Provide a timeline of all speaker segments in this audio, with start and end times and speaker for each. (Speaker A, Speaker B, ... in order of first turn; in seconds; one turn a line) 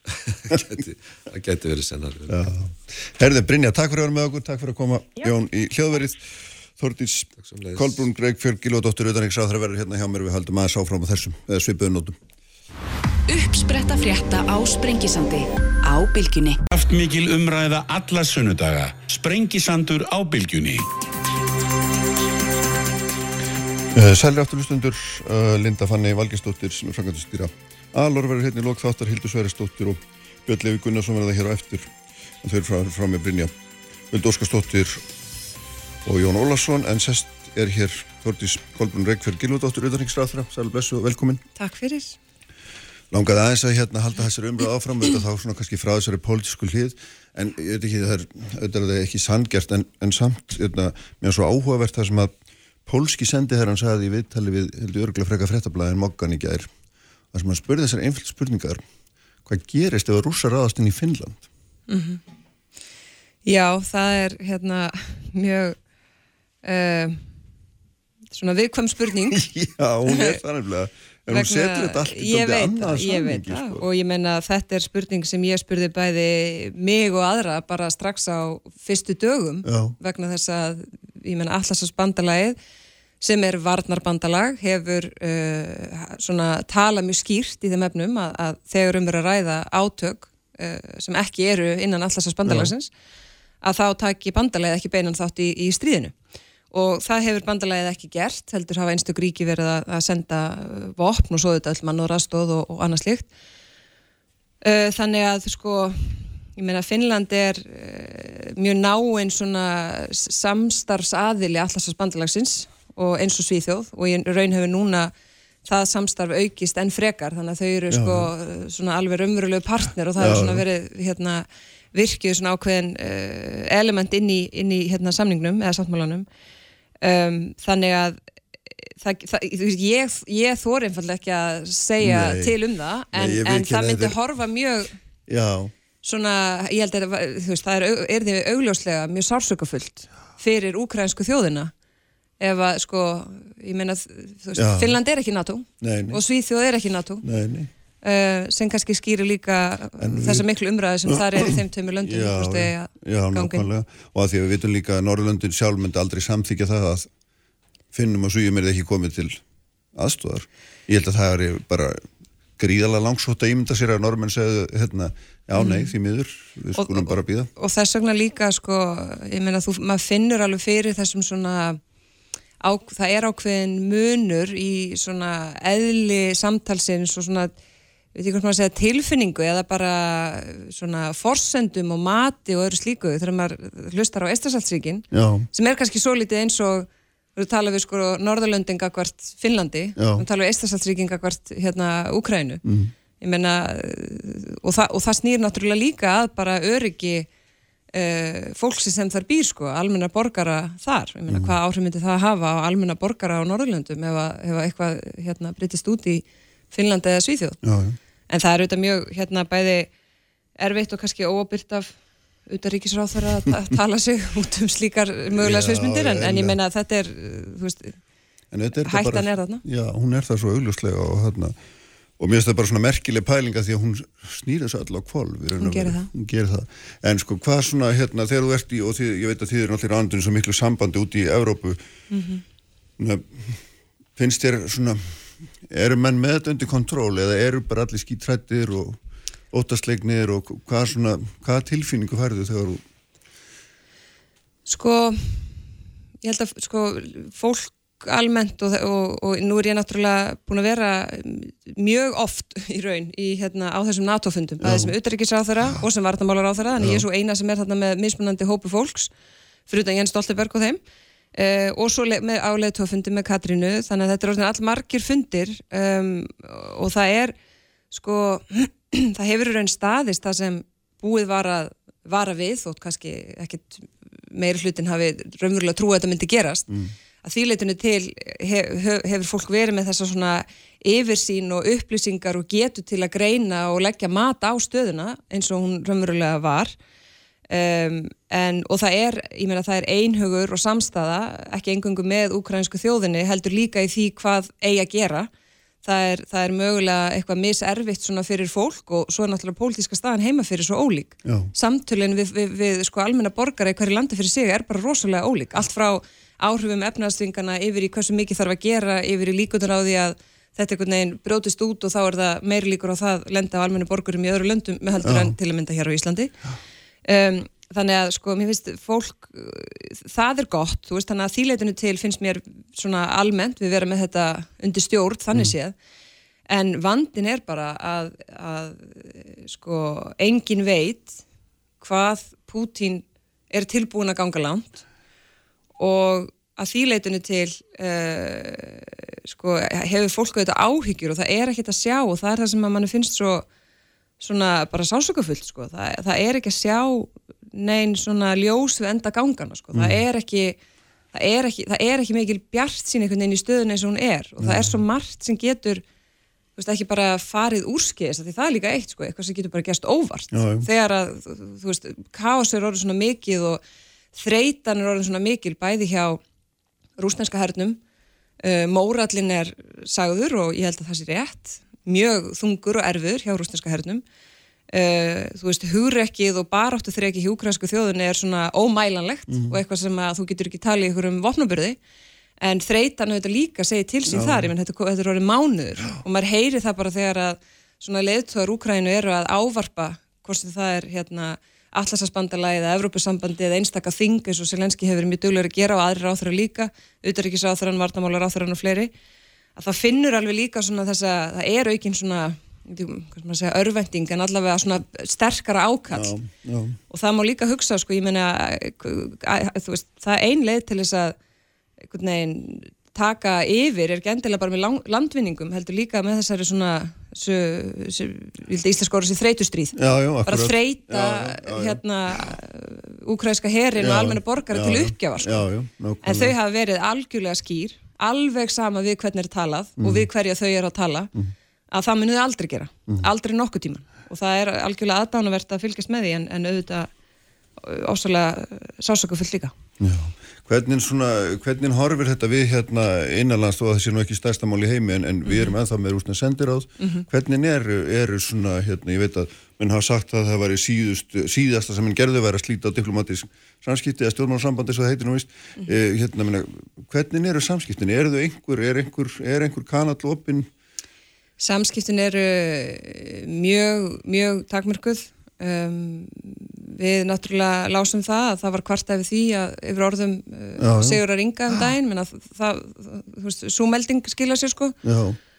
Speaker A: 0.2-2.5
Speaker B: 2.3-12.2
Speaker A: 7.4-8.0
Speaker C: 13.3-16.6
Speaker D: 16.7-20.9
Speaker B: 23.9-31.9
Speaker B: 32.4-33.5
Speaker B: 34.1-35.0
Speaker B: 36.0-41.4
Speaker E: 41.6-42.1
Speaker B: 43.1-52.3
Speaker B: 52.9-56.7
Speaker B: 57.3-58.8
Speaker B: 59.5-61.4
Speaker E: 61.9-62.2
Speaker E: 63.4-65.8
Speaker E: 66.6-67.2
Speaker E: 68.3-69.4
Speaker B: 69.3-73.8
Speaker E: 70.1-70.4
Speaker E: 71.3-82.5
Speaker B: 79.6-80.0
Speaker E: 83.2-92.9
Speaker B: 92.5-92.7
Speaker E: 93.6-96.2
Speaker E: 96.7-103.3
Speaker E: 104.6-115.1
Speaker E: 115.6-126.3
Speaker B: 117.9-118.3
Speaker B: 120.2-120.6
Speaker E: 127.0-128.2
Speaker E: 128.9-134.9
Speaker B: 132.0-132.6
Speaker B: 133.1-134.2
Speaker B: 135.3-135.7
Speaker E: 136.0-141.7
Speaker E: 142.4-147.2
Speaker B: 144.5-145.0
Speaker B: 145.8-146.2
Speaker B: 147.2-147.7
Speaker E: 148.0-153.7
Speaker B: 150.0-150.4
Speaker B: 151.1-157.1
Speaker B: 157.9-159.4
Speaker B: 159.9-162.0
Speaker B: 162.6-167.5
Speaker E: 165.5-165.9
Speaker E: 166.7-171.8
Speaker E: 172.6-177.5
Speaker E: 178.1-192.6
Speaker B: 185.1-185.5
Speaker B: 190.0-190.2
Speaker B: 192.6-192.9
Speaker E: 193.2-197.3
Speaker E: 197.9-207.6
Speaker B: 201.3-201.5
Speaker B: 207.6-208.0
Speaker E: 208.3-209.9
Speaker E: 210.6-211.9
Speaker E: 212.5-217.9
Speaker B: 215.3-216.6
Speaker B: 218.5-221.6
Speaker E: 218.8-219.6
Speaker B: 222.2-231.8
Speaker E: 225.6-226.1
Speaker E: 232.1-232.4
Speaker B: 233.0-233.6
Speaker B: 234.2-235.1
Speaker B: 235.7-239.0
Speaker B: 239.5-242.8
Speaker E: 244.7-245.5
Speaker E: 246.2-259.1
Speaker B: 254.6-254.9
Speaker B: 256.8-257.1
Speaker E: 259.7-260.8
Speaker E: 261.3-267.3
Speaker E: 267.9-276.7
Speaker E: 277.2-286.7
Speaker E: 287.5-295.3
Speaker E: 295.8-316.3
Speaker B: 301.2-301.5
Speaker B: 315.0-315.3
Speaker E: 317.0-325.7
Speaker E: 326.5-331.2
Speaker E: 331.8-334.8
Speaker E: 335.8-343.4
Speaker E: 344.2-350.6
Speaker B: 349.7-350.0
Speaker E: 351.1-355.8
Speaker B: 354.4-354.8
Speaker E: 356.6-363.6
Speaker B: 360.3-360.7
Speaker E: 364.1-366.2
Speaker E: 367.0-367.8
Speaker E: 368.4-374.0
Speaker E: 374.7-381.8
Speaker B: 379.3-379.6
Speaker E: 382.4-398.9
Speaker B: 384.1-384.5
Speaker E: 399.6-406.1
Speaker B: 405.9-406.8
Speaker E: 406.9-411.1
Speaker E: 411.8-425.4
Speaker B: 419.8-422.3
Speaker B: 423.8-426.3
Speaker E: 426.0-431.1
Speaker B: 429.8-430.1
Speaker E: 431.7-436.9
Speaker E: 437.6-439.5
Speaker B: 439.8-460.5
Speaker E: 445.2-445.5
Speaker E: 461.4-474.8
Speaker B: 470.6-471.0
Speaker B: 474.8-475.2